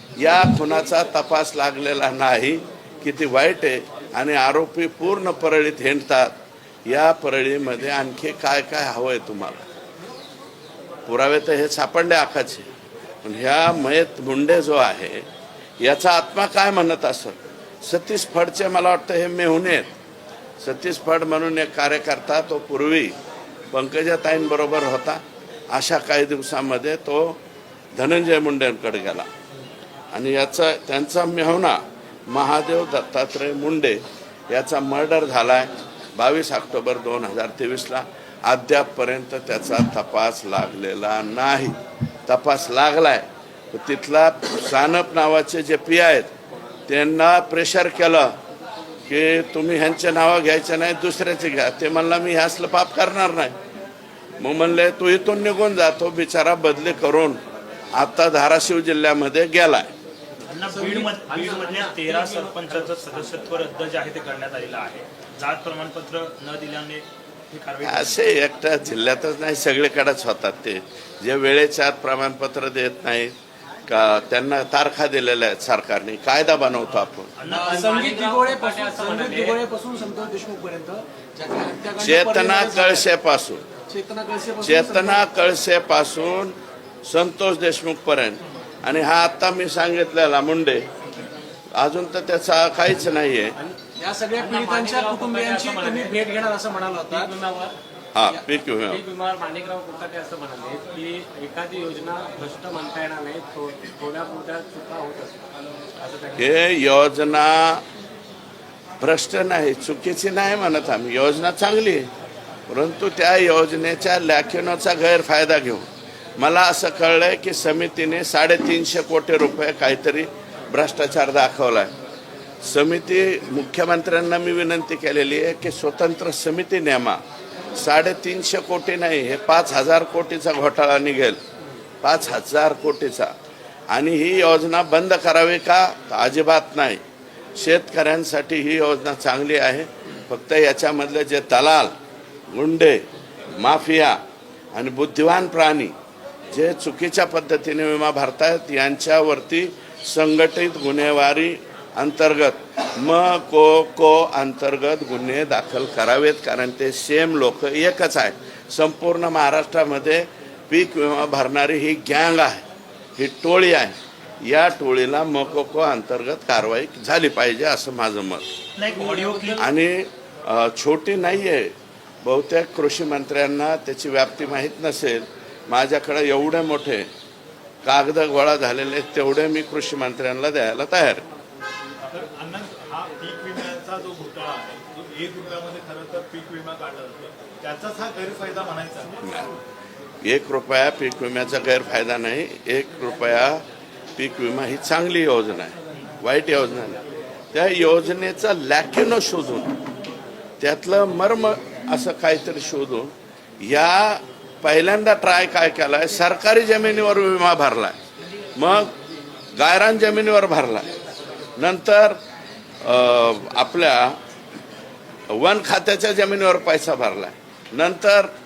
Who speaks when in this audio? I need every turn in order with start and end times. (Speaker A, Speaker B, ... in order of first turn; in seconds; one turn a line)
Speaker A: 0.2-9.7
Speaker A: 11.1-12.7
Speaker A: 13.2-15.2
Speaker A: 15.8-19.9
Speaker A: 20.6-23.1
Speaker A: 23.7-27.4
Speaker A: 27.9-29.3
Speaker A: 30.1-46.3
Speaker A: 46.9-48.4
Speaker A: 49.1-53.6
Speaker A: 54.4-57.4
Speaker A: 57.9-59.9
Speaker B: 60.5-68.3
Speaker C: 60.7-61.6
Speaker D: 61.6-63.1
Speaker A: 67.8-73.3
Speaker A: 73.9-77.3
Speaker B: 77.4-78.1
Speaker C: 77.5-83.1
Speaker D: 77.7-79.7
Speaker A: 82.0-83.6
Speaker C: 83.9-85.2
Speaker A: 84.6-90.9
Speaker A: 91.8-93.5
Speaker C: 94.0-97.3
Speaker D: 94.3-96.2
Speaker D: 97.0-97.8
Speaker A: 98.2-99.0
Speaker D: 98.9-106.5
Speaker A: 106.3-107.8
Speaker A: 109.0-112.1
Speaker A: 112.7-121.9
Speaker A: 122.6-127.2
Speaker A: 127.8-131.4
Speaker A: 132.0-133.3
Speaker A: 133.9-137.0
Speaker A: 137.6-141.9
Speaker A: 142.5-143.0
Speaker A: 143.6-144.2
Speaker A: 144.7-145.9
Speaker A: 146.5-162.6
Speaker A: 163.2-168.5
Speaker B: 168.8-169.7
Speaker C: 169.0-169.6
Speaker A: 169.6-171.7
Speaker A: 172.2-177.1
Speaker A: 177.8-181.2
Speaker E: 182.2-189.1
Speaker B: 184.1-184.6
Speaker A: 189.2-189.5
Speaker A: 190.2-193.6
Speaker A: 194.2-197.0
Speaker A: 197.5-199.8
Speaker A: 200.6-208.0
Speaker A: 208.6-208.9
Speaker A: 209.6-210.9
Speaker A: 211.6-212.2
Speaker A: 212.8-214.2
Speaker A: 215.3-218.3